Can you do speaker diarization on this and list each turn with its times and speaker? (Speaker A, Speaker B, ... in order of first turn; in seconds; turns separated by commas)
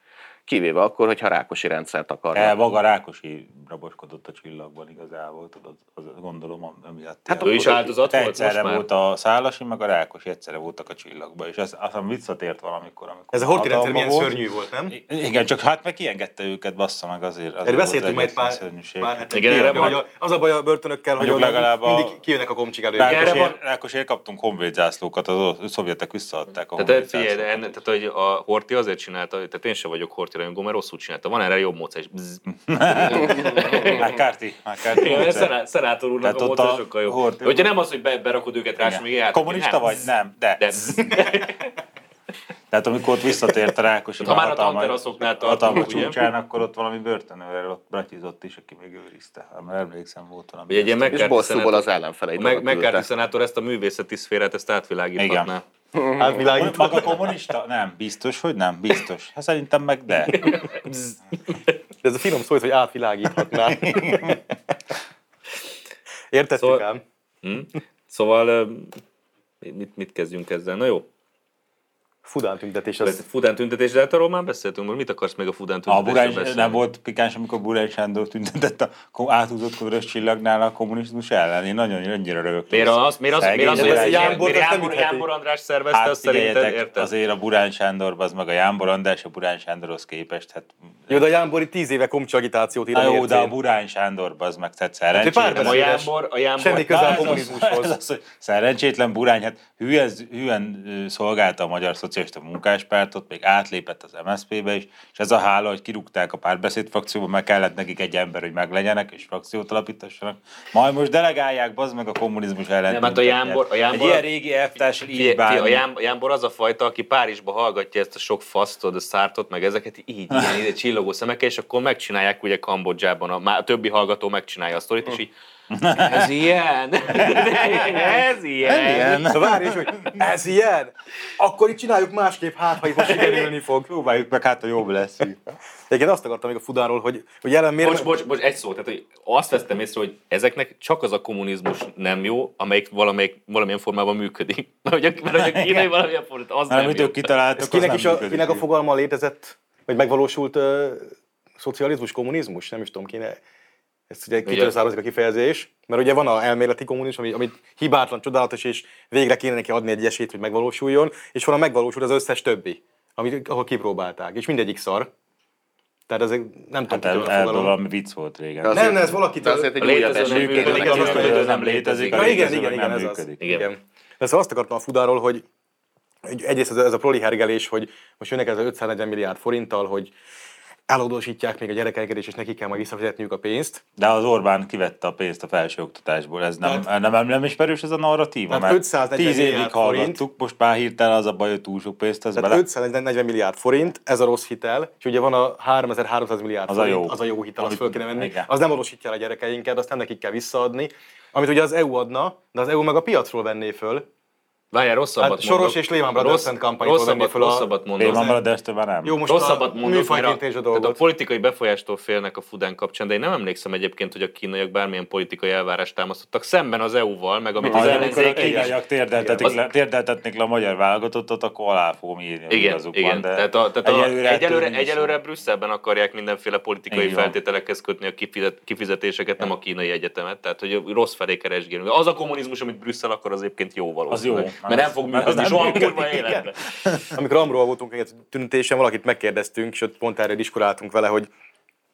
Speaker A: 0.5-2.5, Speaker B: 2.3-14.4, Speaker A: 7.3-7.9, Speaker C: 7.4-8.8, Speaker D: 13.3-14.9, Speaker B: 14.9-20.0, Speaker D: 17.6-23.5, Speaker C: 19.3-20.0, Speaker B: 21.2-22.1, Speaker B: 22.9-27.8, Speaker C: 23.0-23.6, Speaker C: 26.8-34.1, Speaker B: 32.5-35.5, Speaker C: 34.9-40.0, Speaker B: 36.2-37.7, Speaker B: 38.8-41.1, Speaker C: 40.6-41.7, Speaker B: 42.7-51.3, Speaker C: 44.2-46.2, Speaker C: 50.7-55.6, Speaker A: 51.1-53.0, Speaker B: 55.2-55.5, Speaker A: 55.9-56.5, Speaker D: 56.2-57.2, Speaker B: 56.5-60.6, Speaker C: 60.3-61.7, Speaker D: 62.0-64.4, Speaker B: 63.7-64.4, Speaker D: 66.3-67.0, Speaker C: 67.4-69.0, Speaker C: 69.6-71.0, Speaker D: 72.2-73.2, Speaker C: 73.0-76.8, Speaker B: 75.9-84.5, Speaker C: 82.7-87.1, Speaker D: 83.7-85.3, Speaker B: 85.9-91.3, Speaker D: 91.1-93.5, Speaker B: 92.9-95.9, Speaker D: 95.1-97.9, Speaker C: 95.5-97.4, Speaker B: 96.7-115.8, Speaker C: 112.9-114.2, Speaker C: 115.1-125.3, Speaker B: 120.3-120.6, Speaker B: 125.7-126.3, Speaker C: 125.9-129.3, Speaker B: 127.1-128.1, Speaker B: 128.6-130.2, Speaker D: 129.2-133.9, Speaker B: 132.8-135.5, Speaker D: 135.9-138.1, Speaker C: 137.8-147.3, Speaker B: 145.3-145.9, Speaker B: 146.7-148.6, Speaker D: 147.6-153.4, Speaker D: 154.1-165.1, Speaker C: 154.4-154.7, Speaker D: 166.1-167.7, Speaker B: 166.9-169.1, Speaker A: 168.6-171.4, Speaker D: 168.7-169.8, Speaker C: 169.8-172.5, Speaker B: 170.1-173.4, Speaker D: 170.5-171.4, Speaker D: 172.1-175.4, Speaker C: 173.4-173.7, Speaker D: 176.3-180.1, Speaker D: 180.9-183.8, Speaker B: 184.0-192.6, Speaker D: 188.5-190.2, Speaker D: 192.3-204.1, Speaker B: 196.7-198.5, Speaker C: 204.7-208.3, Speaker D: 205.2-208.4, Speaker B: 208.0-209.2, Speaker D: 209.0-211.0, Speaker C: 209.3-218.8, Speaker B: 217.6-225.2, Speaker D: 217.7-219.5, Speaker C: 222.5-236.7, Speaker B: 226.9-227.3, Speaker B: 234.1-237.0, Speaker D: 237.1-241.3